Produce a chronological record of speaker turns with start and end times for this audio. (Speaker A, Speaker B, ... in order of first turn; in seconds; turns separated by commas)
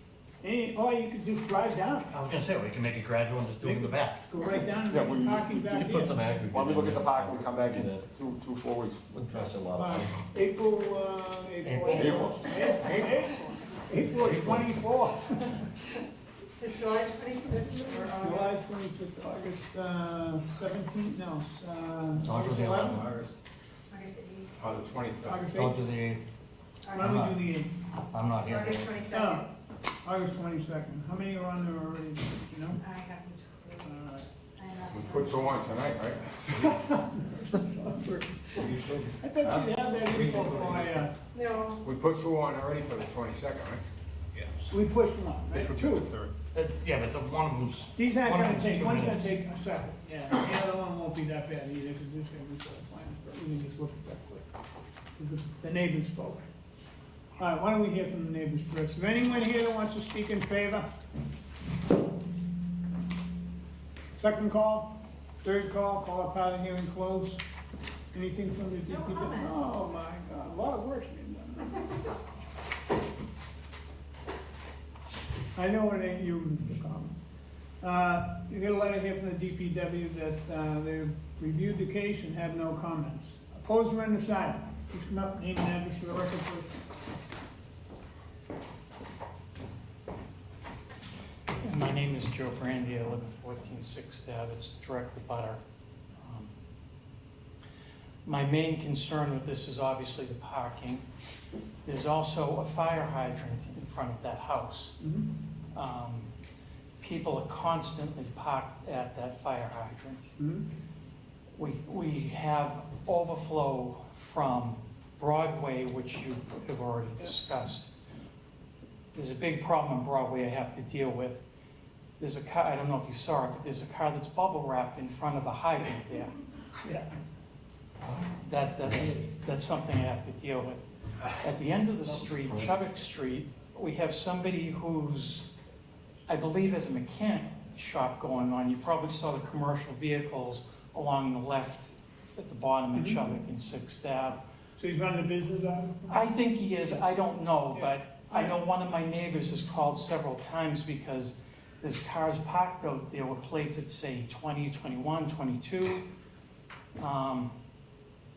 Speaker A: 0.4-2.1, Speaker B: 2.1-4.2, Speaker A: 3.6-6.3, Speaker C: 4.8-9.1, Speaker D: 5.5-8.1, Speaker D: 9.1-10.2, Speaker A: 9.8-15.6, Speaker B: 11.6-13.1, Speaker C: 11.9-12.6, Speaker D: 14.2-14.7, Speaker E: 16.6-18.5, Speaker A: 18.0-23.2, Speaker B: 22.2-23.3, Speaker E: 24.0-24.5, Speaker F: 24.6-25.5, Speaker A: 25.2-25.7, Speaker B: 25.5-26.2, Speaker E: 26.9-27.2, Speaker B: 26.9-29.2, Speaker A: 27.0-27.7, Speaker E: 29.0-29.4, Speaker A: 29.1-29.5, Speaker A: 30.0-32.8, Speaker E: 32.8-33.9, Speaker A: 33.9-34.2, Speaker E: 34.6-35.3, Speaker F: 34.9-36.8, Speaker A: 36.6-38.5, Speaker F: 38.6-41.0, Speaker A: 39.2-41.1, Speaker D: 40.2-40.6, Speaker E: 41.3-41.8, Speaker F: 41.8-43.8, Speaker A: 44.7-46.1, Speaker F: 45.5-46.3, Speaker B: 46.5-49.3, Speaker A: 48.0-54.5, Speaker A: 55.2-56.5, Speaker A: 57.4-60.9, Speaker A: 64.2-67.4, Speaker A: 68.1-71.8, Speaker E: 69.0-69.6, Speaker A: 75.5-77.1, Speaker A: 77.8-86.8, Speaker G: 91.6-95.6, Speaker G: 96.2-96.5, Speaker G: 98.2-101.0, Speaker G: 101.8-105.0, Speaker A: 105.0-105.3, Speaker G: 105.7-106.3, Speaker G: 107.0-110.3, Speaker A: 110.4-110.7, Speaker G: 111.5-117.9, Speaker G: 119.1-121.4, Speaker G: 122.2-126.3, Speaker A: 126.8-127.1, Speaker G: 128.4-135.5, Speaker G: 136.3-144.4, Speaker A: 142.9-143.2, Speaker A: 144.8-146.3, Speaker G: 146.1-156.0, Speaker A: 147.7-148.6, Speaker G: 157.0-157.5